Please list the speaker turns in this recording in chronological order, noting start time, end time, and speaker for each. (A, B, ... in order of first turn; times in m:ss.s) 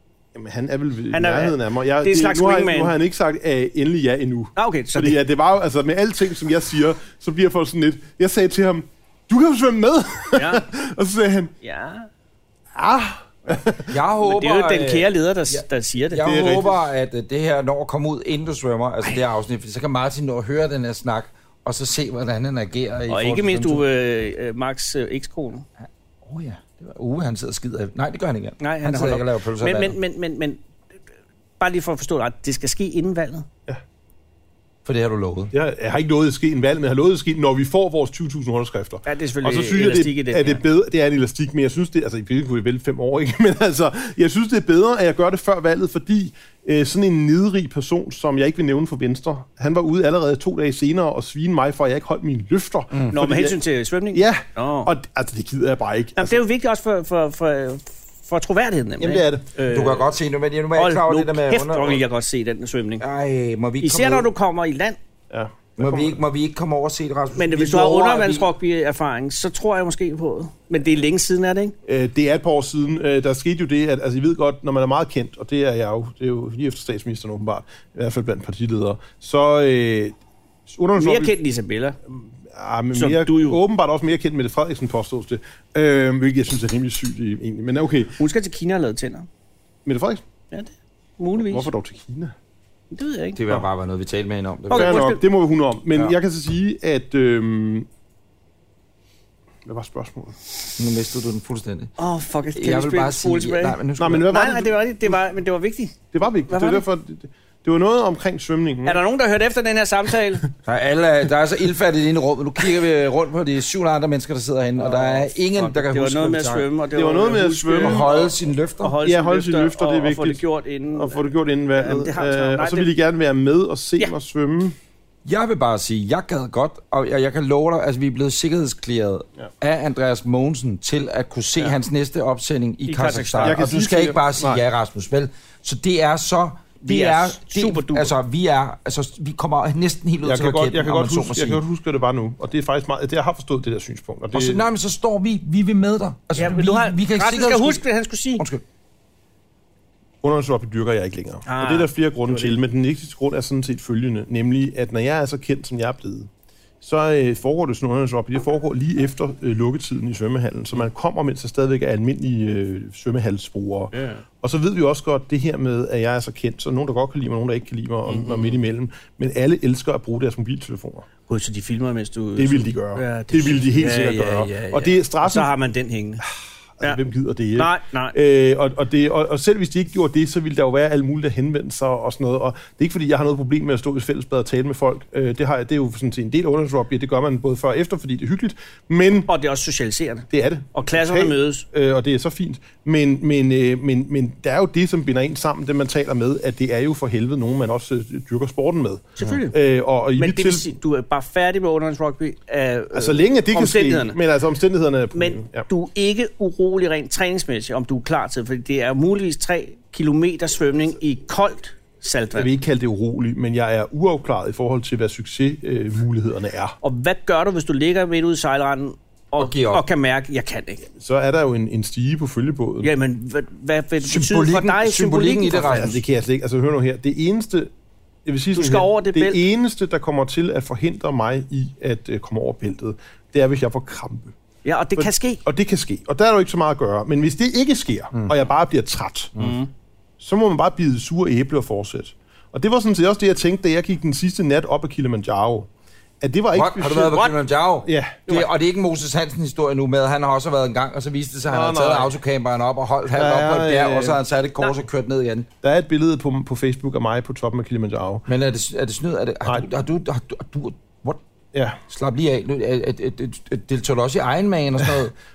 0:00.3-0:11.5 A
0:01.1-0:02.9 B
0:04.6-0:05.2 B
0:10.3-0:10.6 B
0:11.6-0:12.1 B
0:12.7-0:13.9 A
0:13.9-0:23.8 C
0:14.2-0:16.6 B
0:16.2-0:16.8 A
0:23.1-0:25.6 B
0:26.2-0:30.0 C
0:28.6-0:30.6 B
0:31.6-0:33.4 B
0:34.8-0:35.5 C
0:35.5-0:53.6 A
0:39.0-0:40.6 B
0:53.1-0:54.9 B
0:54.1-0:56.4 A
0:56.2-1:00.1 B
0:59.0-0:59.5 A
0:59.7-1:02.0 C
1:00.7-1:03.0 B
1:03.0-1:04.3 C
1:03.8-1:05.0 B
1:05.3-1:06.2 A
1:05.8-1:08.5 C
1:07.3-1:11.7 B
1:11.8-1:20.1 A
1:20.7-1:21.4 A
1:21.0-1:22.0 B
1:22.1-1:28.2 A
1:22.9-1:23.6 B
1:28.2-1:29.3 B
1:29.8-1:30.2 A
1:30.5-1:31.7 B
1:31.4-1:32.3 A
1:32.9-1:33.4 B
1:33.4-1:35.1 C
1:34.7-1:35.2 B
1:34.7-1:37.9 A
1:39.6-1:40.4 A
1:40.8-1:41.9 C
1:42.0-1:46.0 B
1:42.5-1:44.3 C
1:44.0-1:45.2 A
1:46.1-1:49.0 A
1:46.5-1:46.8 B
1:48.8-1:50.5 B
1:50.6-1:56.7 C
1:54.8-1:58.2 B
1:56.9-1:58.3 A
1:57.8-1:59.0 C
1:58.8-2:02.9 B
1:59.0-2:00.4 A
2:00.9-2:04.8 A
2:05.2-2:21.6 C
2:12.9-2:13.6 B
2:13.4-2:14.6 A
2:16.8-2:18.1 B
2:20.2-2:24.7 A
2:24.3-2:27.8 C
2:26.4-2:28.4 B
2:30.2-2:36.3 A
2:31.5-2:32.6 B
2:36.8-2:51.1 A
2:43.9-2:44.2 B
2:48.1-2:48.6 B
2:51.3-2:56.2 B
2:52.4-2:55.5 A
2:56.2-3:09.3 A
2:57.6-2:58.1 B
3:09.3-3:11.6 B
3:10.3-3:20.7 A
3:19.2-3:19.6 B
3:20.2-3:24.2 B
3:22.9-3:25.7 A
3:25.1-3:32.5 B
3:32.3-3:36.8 A
3:36.8-3:40.9 B
3:39.4-3:39.8 C
3:41.0-3:42.9 A
3:42.8-3:45.9 B
3:44.0-3:46.0 C
3:45.6-3:47.7 A
3:48.2-3:54.3 A
3:48.5-3:49.4 B
3:54.6-3:55.4 B
3:55.0-3:59.4 A
3:59.4-3:59.7 B
4:00.2-4:05.7 A
4:06.2-4:07.3 A
4:06.5-4:15.5 C
4:07.8-4:08.4 A
4:11.5-4:12.1 A
4:13.1-4:14.2 A
4:15.6-4:18.2 A
4:18.3-4:21.2 C
4:21.5-4:21.8 A
4:21.9-4:25.1 C